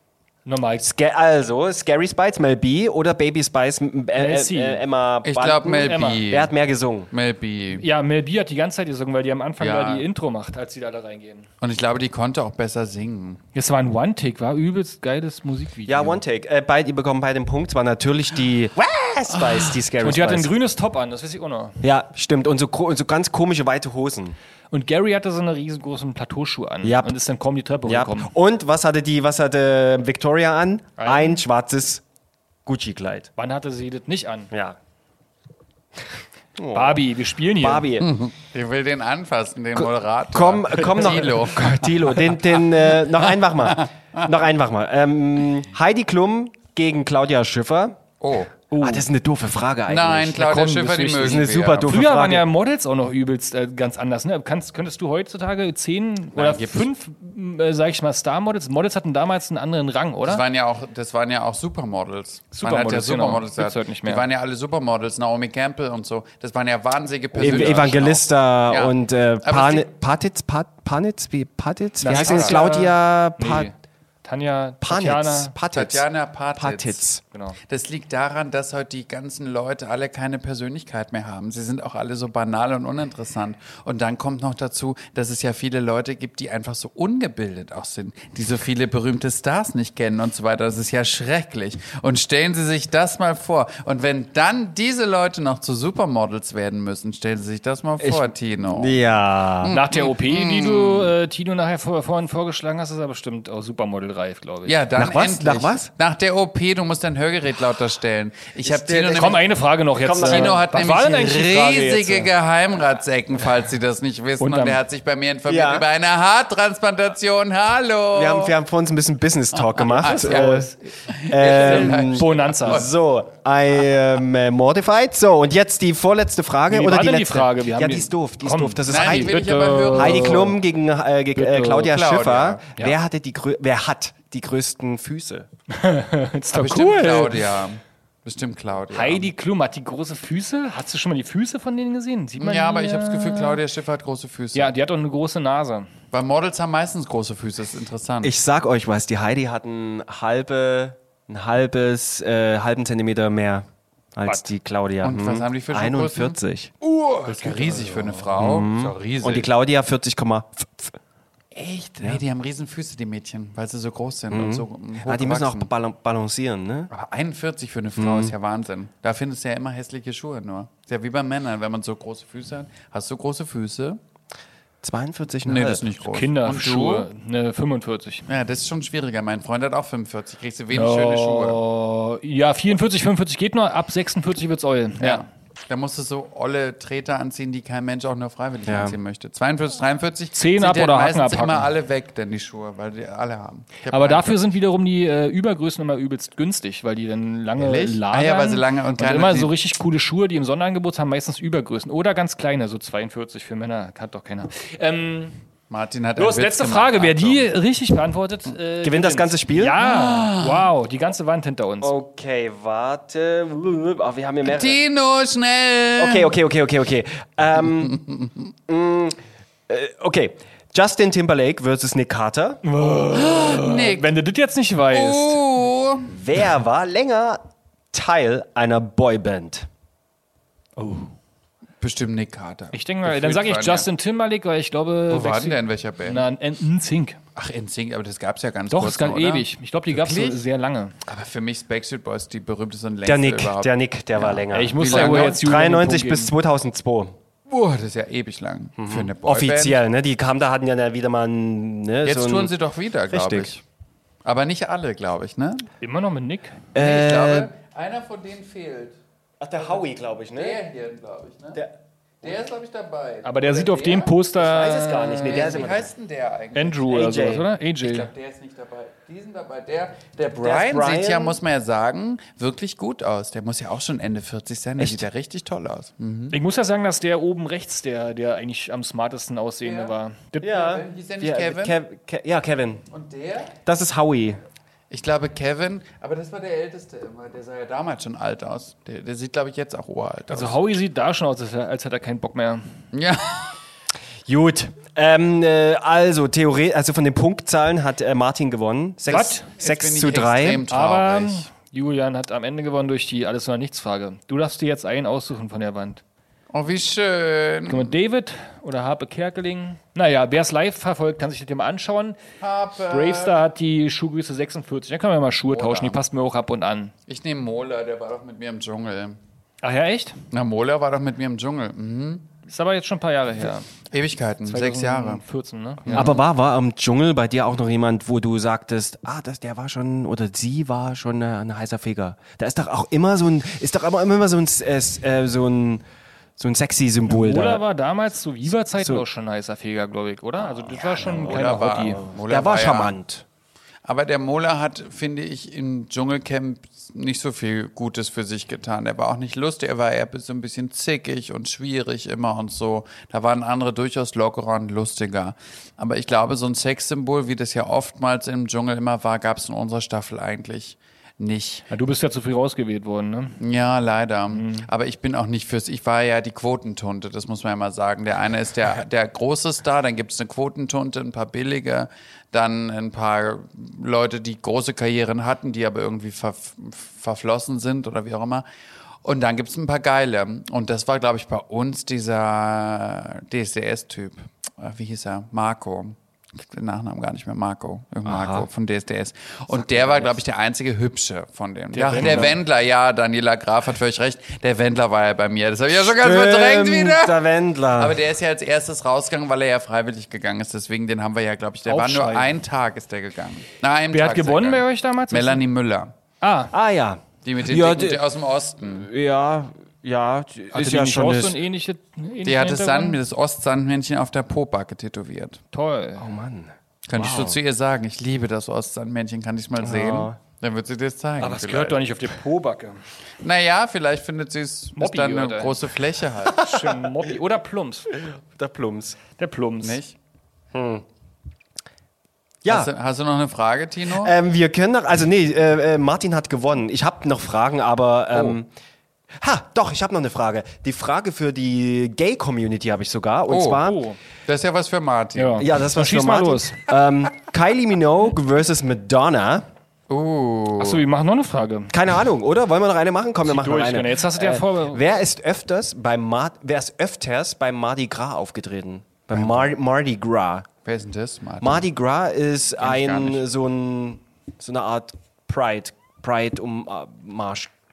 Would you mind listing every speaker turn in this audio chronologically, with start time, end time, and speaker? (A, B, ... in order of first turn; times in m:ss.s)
0:00.4-0:00.9 A
0:00.8-0:07.1 B
0:04.2-0:04.8 A
0:05.2-0:06.5 C
0:05.6-0:06.2 A
0:07.1-0:07.8 C
0:07.8-0:11.5 A
0:09.6-0:10.1 C
0:11.6-0:13.4 C
0:13.6-0:16.2 A
0:15.9-0:20.5 B
0:20.0-0:21.8 A
0:21.8-0:24.4 B
0:24.7-0:28.3 A
0:26.8-0:27.2 B
0:27.8-0:32.0 B
0:31.0-0:31.4 A
0:32.7-0:33.3 B
0:33.4-0:34.5 A
0:34.5-0:34.8 B
0:36.6-0:37.1 B
0:36.7-0:38.0 A
0:37.6-0:38.1 B
0:38.0-0:44.2 C
0:39.8-0:48.0 B
0:48.2-0:48.5 C
0:48.7-0:49.1 A
0:48.8-0:50.7 B
0:49.9-0:52.0 C
0:50.4-1:00.4 A
0:51.2-0:52.5 B
0:56.4-0:56.9 C
1:00.2-1:09.9 C
1:02.5-1:04.2 A
1:07.4-1:13.7 B
1:12.0-1:13.7 A
1:12.1-1:12.6 C
1:14.2-1:15.5 A
1:14.8-1:16.0 B
1:15.7-1:17.1 C
1:16.6-1:17.2 B
1:17.3-1:17.6 A
1:17.7-1:39.0 C
1:38.0-1:39.8 B
1:39.6-1:41.1 C
1:39.6-1:44.8 A
1:44.7-1:49.4 C
1:45.0-1:45.9 B
1:48.6-1:49.4 B
1:49.2-1:52.3 A
1:50.0-1:50.7 B
1:50.2-1:58.6 C
1:54.4-1:54.8 A
1:55.5-1:55.9 B
1:58.1-2:00.7 B
1:59.8-2:02.9 C
2:00.0-2:00.7 A
2:01.3-2:15.5 B
2:01.4-2:02.9 A
2:06.7-2:10.6 A
2:08.9-2:10.6 C
2:11.4-2:11.9 A
2:11.8-2:12.6 C
2:15.7-2:17.5 A
2:16.5-2:19.3 C
2:18.9-2:23.6 A
2:22.4-2:24.7 C
2:24.5-2:25.9 A
2:26.1-2:28.4 C
2:28.2-2:36.8 B
2:35.0-2:39.5 C
2:37.6-2:41.0 B
2:41.5-2:45.7 C
2:44.3-2:46.9 B
2:46.9-2:54.0 C
2:48.0-2:48.3 B
2:54.8-2:55.8 B
2:55.4-2:57.1 C
2:56.1-2:58.3 A
2:58.3-3:01.6 C
3:00.7-3:05.2 A
3:05.0-3:14.4 C
3:08.7-3:09.0 B
3:10.4-3:11.7 A
3:13.9-3:25.4 A
3:17.6-3:19.5 C
3:25.7-3:27.5 C
3:26.2-3:31.9 A
3:28.8-3:29.8 B
3:29.8-3:30.7 C
3:31.8-3:34.8 B
3:34.4-3:36.3 C
3:36.0-3:38.0 B
3:37.8-3:38.3 C
3:38.7-3:39.2 B
3:39.7-3:42.6 B
3:42.6-3:45.4 A
3:43.1-3:44.1 C
3:44.9-3:46.1 C
3:46.1-3:49.7 B
3:50.8-3:51.1 A
3:51.8-3:53.9 C
3:52.7-3:57.2 A
3:55.1-3:56.2 C
3:57.4-4:00.4 C
3:58.7-4:01.0 A
4:01.0-4:05.4 C
4:03.0-4:07.1 B
4:04.5-4:06.3 A
4:07.5-4:09.8 C
4:08.8-4:12.5 B
4:12.0-4:13.6 C
4:13.1-4:13.5 B
4:14.2-4:15.7 C
4:15.8-4:16.6 A
4:16.7-4:17.5 B
4:16.8-4:19.0 C
4:19.4-4:20.6 B
4:20.3-4:21.6 C
4:22.2-4:24.2 C
4:23.2-4:25.7 A
4:24.4-4:25.9 B
4:25.3-4:26.9 C
4:26.6-4:28.1 A
4:26.9-4:27.5 B
4:27.8-4:36.4 C
4:30.4-4:31.4 B
4:34.8-4:35.1 B
4:36.3-4:40.5 A
4:39.6-4:41.8 C
4:40.4-4:42.8 B
4:42.9-4:43.6 C
4:43.6-4:44.4 B
4:44.9-4:50.6 C
4:50.3-4:52.6 A
4:52.9-4:53.5 C
4:54.3-5:00.6 B
4:59.1-4:59.5 A
4:59.1-5:01.5 C
5:00.7-5:06.0 A
5:06.5-5:08.0 C
5:07.7-5:12.2 A
5:12.4-5:13.4 C
5:12.9-5:16.9 A
5:15.5-5:16.0 C
5:17.1-5:19.2 C
5:19.6-5:20.2 A
5:20.3-5:22.3 C
5:22.5-5:23.7 A
5:23.9-5:25.2 C
5:24.4-5:26.2 A
5:25.8-5:26.2 C
5:26.0-5:35.8 B
5:36.4-5:37.6 B
5:37.1-5:42.0 A
5:38.8-5:39.0 B
5:40.8-5:43.0 C
5:41.0-5:43.2 B
5:43.8-6:01.7 C
6:01.7-6:03.4 A
6:03.4-6:18.4 C
6:04.3-6:04.7 A
6:19.0-6:37.2 C
6:28.1-6:28.5 B
6:29.7-6:30.1 B
6:31.7-6:32.4 A
6:31.9-6:32.3 B
6:35.8-6:38.0 B
6:37.7-6:45.9 C
6:41.7-6:42.3 A
6:43.9-6:45.4 A
6:46.2-6:46.5 A
6:46.5-6:48.0 B
6:47.2-6:48.9 C
6:48.7-6:51.4 B
6:50.5-6:53.0 A
6:52.2-6:55.4 C
6:55.5-6:56.1 A
6:56.0-6:57.4 B
6:56.9-7:01.8 C
6:59.6-7:00.2 B
7:01.2-7:02.8 A
7:03.2-7:06.5 C
7:04.8-7:05.6 A
7:06.3-7:07.9 A
7:06.3-7:06.9 B
7:07.9-7:09.0 B
7:09.2-7:09.8 A
7:09.6-7:10.0 C
7:10.5-7:10.8 B
7:12.4-7:12.7 B
7:12.5-7:14.1 C
7:13.9-7:18.5 B
7:18.1-7:18.4 C
7:19.2-7:23.8 B
7:23.3-7:23.6 C
7:23.5-7:24.0 A
7:24.3-7:25.5 C
7:25.2-7:26.7 A
7:25.4-7:29.5 B
7:29.9-7:30.8 C
7:30.6-7:31.8 A
7:31.7-7:40.5 B
7:33.2-7:34.8 A
7:39.1-7:39.5 C
7:40.6-7:41.7 C
7:41.4-7:47.5 B
7:42.6-7:43.2 C